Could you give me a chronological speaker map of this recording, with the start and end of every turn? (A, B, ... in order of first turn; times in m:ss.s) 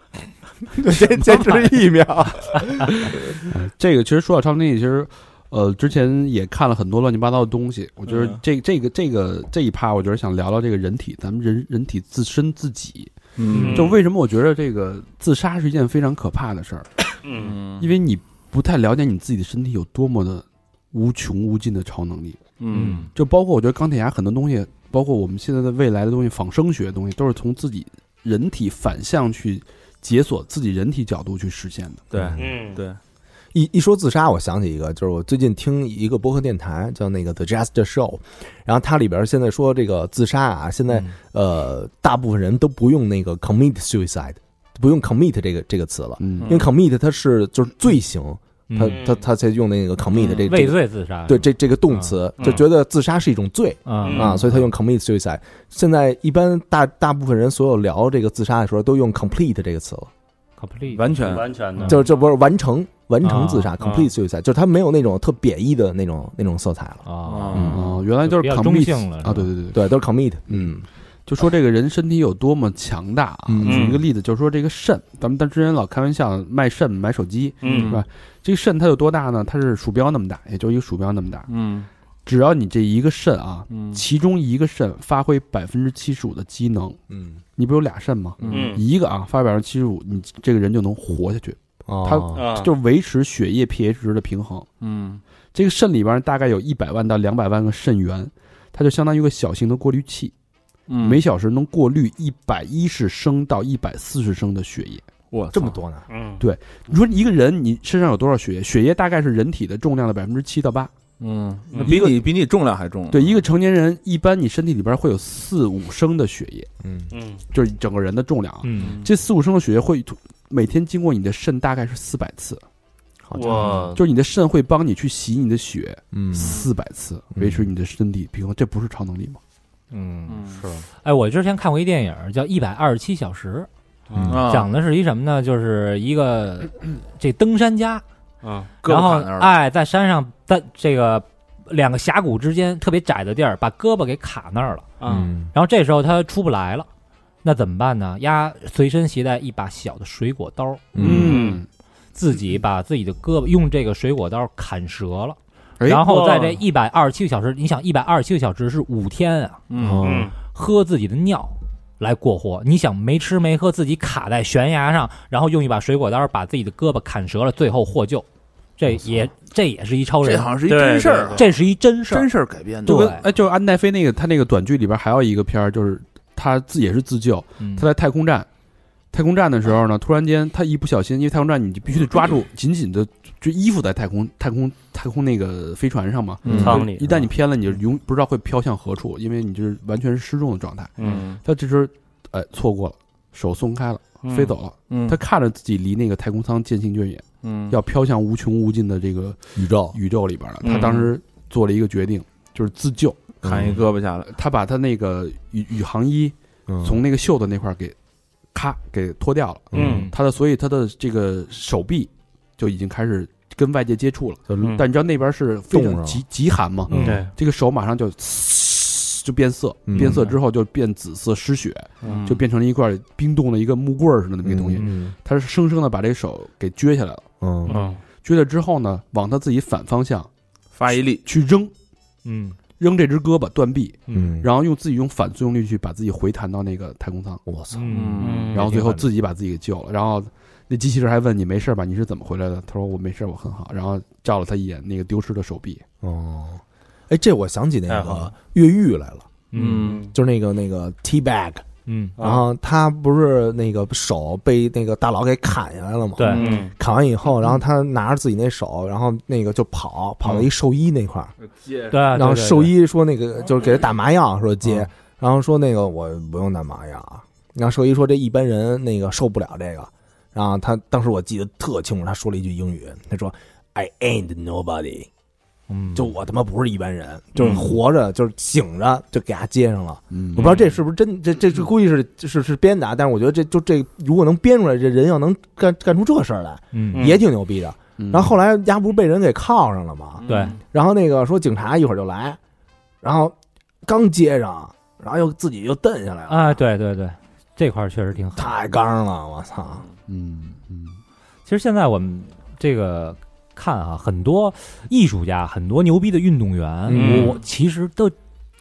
0:00.7-0:03.4 A
0:01.0-0:01.5 B
0:03.1-0:13.1 B
0:08.1-0:08.4 C
0:13.4-0:14.0 C
0:13.5-0:13.8 D
0:13.5-0:14.0 E
0:13.7-0:16.9 B
0:17.2-0:17.6 E
0:17.4-0:17.9 C
0:17.8-0:32.1 B
0:22.6-0:23.1 C
0:22.7-0:23.0 D
0:32.1-0:33.0 C
0:32.2-0:32.5 A
0:32.4-0:32.8 E
0:33.5-1:00.1 A
0:46.2-0:46.6 B
0:46.4-0:46.7 C
0:48.7-0:49.0 D
0:48.9-0:49.3 E
0:50.2-0:50.5 C
0:50.4-0:52.2 D
0:52.4-0:52.6 E
0:53.9-0:54.4 D
0:54.0-0:54.4 E
1:00.6-1:02.0 D
1:00.9-1:01.5 C
1:01.2-1:02.1 E
1:01.8-1:07.8 A
1:03.2-1:03.7 D
1:03.8-1:04.1 E
1:07.0-1:09.5 D
1:07.3-1:07.8 C
1:07.7-1:09.9 B
1:09.7-1:10.9 A
1:11.3-1:21.5 B
1:13.5-1:14.0 A
1:13.6-1:14.0 E
1:17.6-1:18.0 E
1:17.6-1:18.0 C
1:21.5-1:21.9 C
1:22.3-1:27.0 B
1:23.7-1:24.0 C
1:27.1-1:27.4 A
1:27.6-1:34.7 B
1:28.4-1:28.8 C
1:28.5-1:28.8 E
1:31.9-1:32.4 A
1:32.3-1:32.7 E
1:34.8-1:35.2 C
1:35.5-1:40.3 B
1:40.9-1:41.2 C
1:41.0-1:45.1 B
1:45.3-1:45.8 C
1:45.5-1:46.0 A
1:46.1-1:46.4 E
1:46.4-1:50.9 B
1:51.2-1:53.4 C
1:51.7-1:52.0 E
1:51.8-1:52.2 B
1:53.1-1:56.7 B
1:56.8-1:57.1 A
1:57.1-1:57.4 E
1:57.5-2:02.6 B
1:58.6-1:59.0 D
1:58.8-1:59.1 C
2:03.3-2:03.8 A
2:03.3-2:04.0 E
2:03.5-2:03.8 D
2:04.0-2:09.4 B
2:06.1-2:06.6 A
2:07.4-2:07.7 A
2:09.9-2:13.7 D
2:10.3-2:10.7 C
2:14.1-2:14.4 E
2:14.2-2:14.5 A
2:14.3-2:14.7 C
2:14.5-2:18.0 D
2:18.4-2:18.7 E
2:18.8-2:19.5 C
2:18.8-2:24.9 D
2:25.0-2:25.3 E
2:25.1-2:25.5 A
2:25.5-2:26.9 D
2:27.4-2:31.0 D
2:30.9-2:31.4 A
2:31.0-2:31.7 B
2:31.0-2:31.3 C
2:31.1-2:31.6 E
2:32.2-2:39.6 D
2:36.2-2:36.5 E
2:39.7-2:40.3 C
2:39.8-2:40.3 A
2:40.0-2:40.3 E
2:40.5-2:48.3 D
2:48.8-2:50.5 D
2:50.2-2:51.5 C
2:50.7-2:51.4 E
2:51.4-2:52.3 D
2:52.1-2:53.2 C
2:52.8-2:58.5 B
2:52.9-2:53.2 D
2:57.6-2:57.9 D
2:59.1-3:23.4 B
3:06.4-3:06.7 C
3:06.5-3:06.8 A
3:06.6-3:07.2 E
3:11.0-3:11.2 E
3:11.0-3:11.4 C
3:14.2-3:14.6 E
3:14.9-3:15.2 C
3:17.4-3:17.8 C
3:19.6-3:20.0 A
3:20.6-3:21.1 E
3:23.4-3:23.8 A
3:23.4-3:24.3 C
3:24.2-3:28.0 B
3:26.7-3:27.0 A
3:28.5-3:47.2 B
3:29.7-3:30.1 A
3:29.7-3:30.1 E
3:29.8-3:30.1 D
3:34.5-3:34.8 A
3:35.7-3:36.2 A
3:36.9-3:37.2 A
3:36.9-3:37.3 E
3:39.9-3:40.3 A
3:42.0-3:42.4 C
3:44.4-3:45.1 A
3:47.4-3:47.8 A
3:47.7-3:48.0 E
3:48.2-3:50.3 B
3:50.7-3:51.2 C
3:51.2-3:51.7 B
3:52.2-3:52.6 D
3:52.8-3:57.4 B
3:54.1-3:54.5 A
3:57.5-3:58.2 A
3:57.7-3:59.1 D
3:57.9-3:58.5 C
3:58.2-3:58.7 E
3:58.5-4:05.8 B
4:06.0-4:09.4 A
4:07.9-4:08.3 E
4:09.5-4:10.0 D
4:09.5-4:10.0 C
4:09.8-4:10.1 E
4:10.0-4:11.6 A
4:11.9-4:12.2 D
4:12.2-4:12.4 E
4:12.2-4:21.3 A
4:16.2-4:16.7 D
4:16.2-4:16.7 C
4:16.4-4:16.7 E
4:21.4-4:22.1 C
4:21.9-4:22.8 D
4:22.1-4:35.1 A
4:35.7-4:36.1 D
4:35.9-4:52.4 A
4:37.4-4:37.7 E
4:40.1-4:40.6 B
4:46.7-4:47.1 D
4:46.9-4:47.2 E
4:48.0-4:48.4 B
4:50.2-4:50.6 C
4:50.3-4:50.6 D
4:53.0-4:56.6 A
4:56.3-4:58.5 D
4:58.4-4:59.8 A
5:00.1-5:01.0 B
5:01.5-5:08.2 D
5:06.9-5:07.4 A
5:06.9-5:07.4 E